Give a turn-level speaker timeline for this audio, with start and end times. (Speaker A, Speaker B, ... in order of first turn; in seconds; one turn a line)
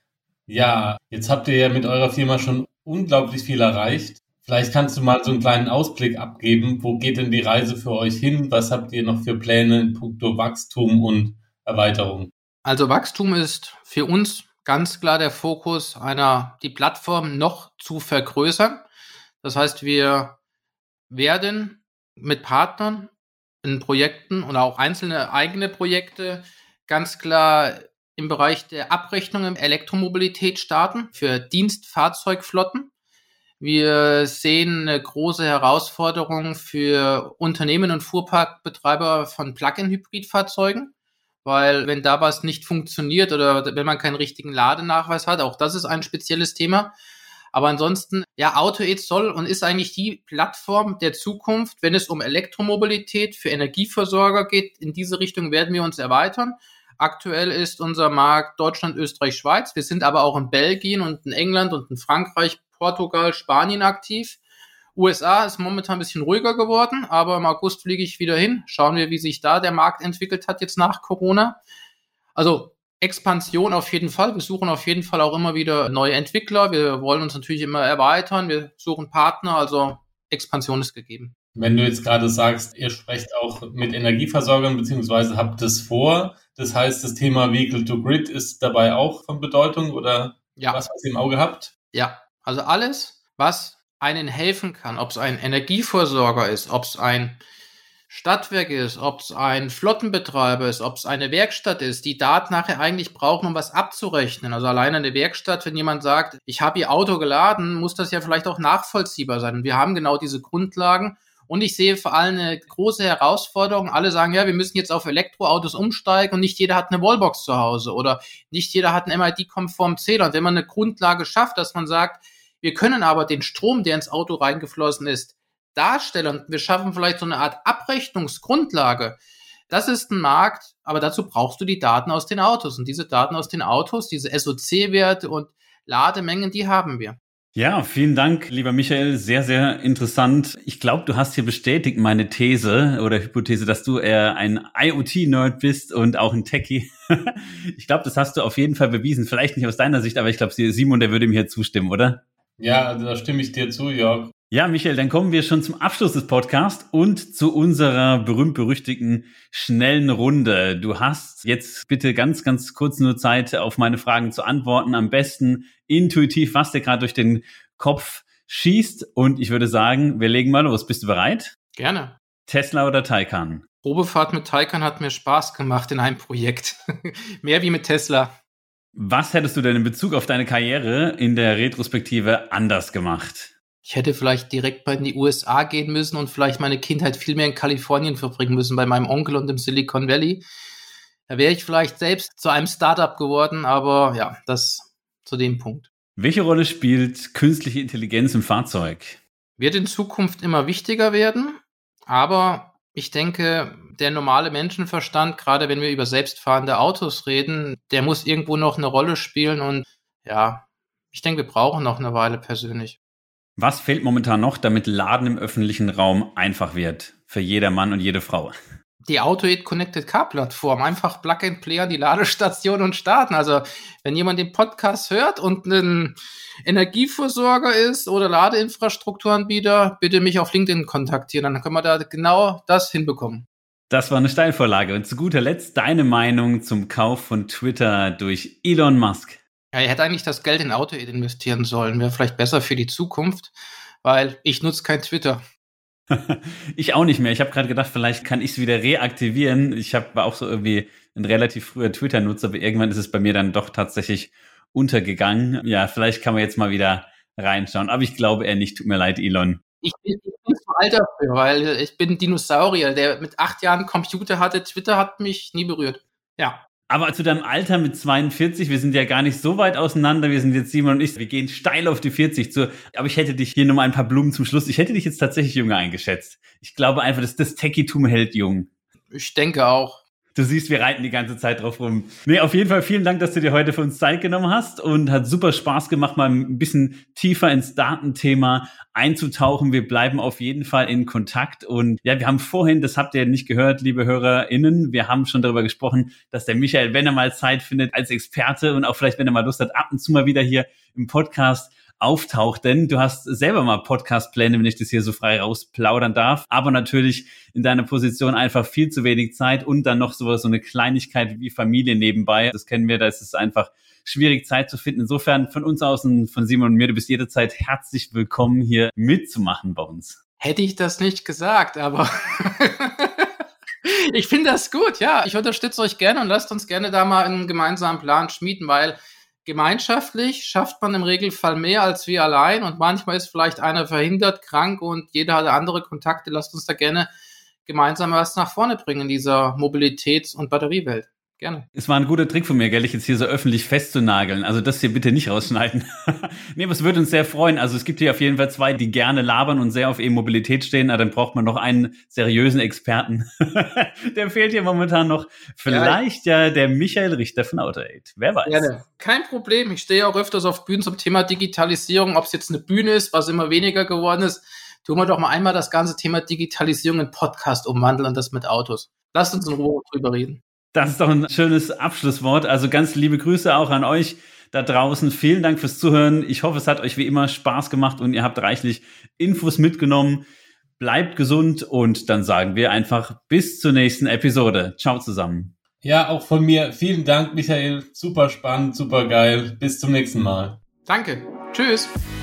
Speaker A: 0.5-12.3
Speaker B: 12.7-18.9
Speaker B: 19.4-20.4
Speaker B: 21.1-23.1
Speaker B: 23.6-32.9
Speaker B: 33.6-40.9
Speaker B: 41.4-46.9
Speaker B: 47.5-64.4
Speaker B: 65.0-71.6
Speaker B: 72.3-81.3
Speaker A: 81.6-91.7
Speaker B: 90.6-90.8
Speaker B: 91.9-97.4
Speaker B: 98.1-137.2
Speaker C: 137.6-152.2
Speaker A: 152.6-154.3
Speaker C: 154.5-171.5
Speaker B: 171.8-172.2
Speaker C: 172.5-173.6
Speaker B: 173.8-178.3
Speaker C: 179.0-183.5
Speaker B: 183.9-190.4
Speaker B: 191.3-195.9
Speaker C: 196.2-199.2
Speaker B: 199.6-213.0
Speaker C: 213.6-218.6
Speaker B: 219.1-233.5
Speaker C: 233.9-239.4
Speaker B: 239.7-245.4
Speaker C: 246.1-259.6
Speaker B: 259.8-266.6
Speaker C: 266.9-278.7
Speaker B: 279.1-280.0
Speaker C: 280.4-320.2
Speaker B: 320.4-323.3
Speaker B: 323.9-337.1
Speaker B: 337.7-341.7
Speaker C: 341.8-358.7
Speaker B: 355.7-356.0
Speaker B: 358.5-370.4
Speaker C: 370.7-380.2
Speaker C: 380.8-385.5
Speaker A: 385.8-390.6
Speaker B: 390.9-391.9